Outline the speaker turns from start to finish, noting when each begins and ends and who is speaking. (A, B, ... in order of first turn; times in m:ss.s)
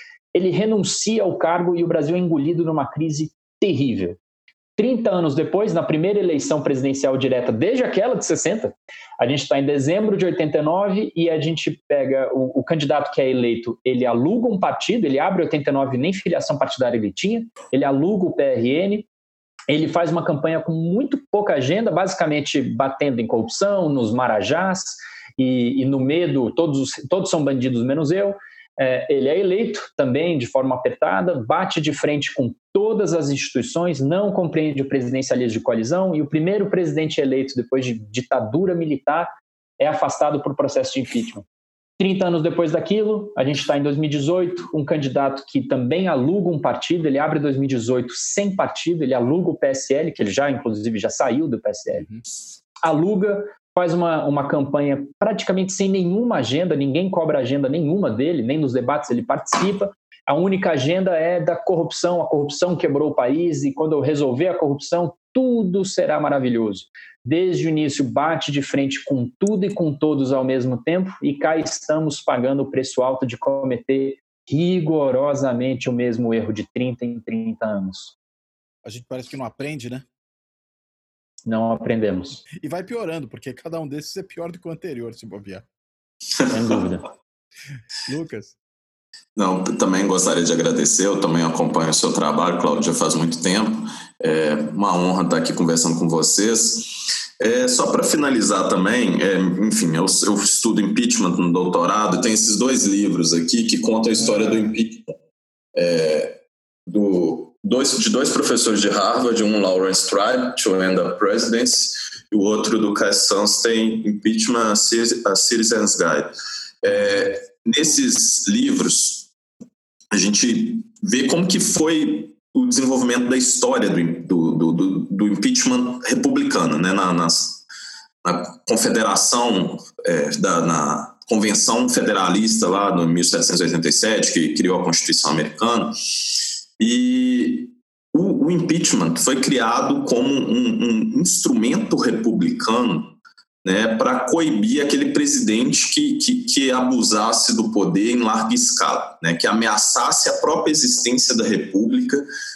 0:00.3-0:04.2 A
0:04.8-0:19.1 A
0:19.7-0:41.4 A
0:42.0-0:52.1 A
0:52.0-0:52.2 B
0:52.8-1:18.1 A
1:18.8-1:20.0 B
1:21.4-1:22.4 A
1:22.5-1:25.6 B
1:26.5-1:27.0 A
1:28.0-1:28.6 B
1:29.3-1:45.2 C
1:44.5-1:44.7 B
1:45.7-1:59.3 C
2:00.1-2:07.6 C
2:08.2-2:23.1 C
2:23.6-2:32.3 C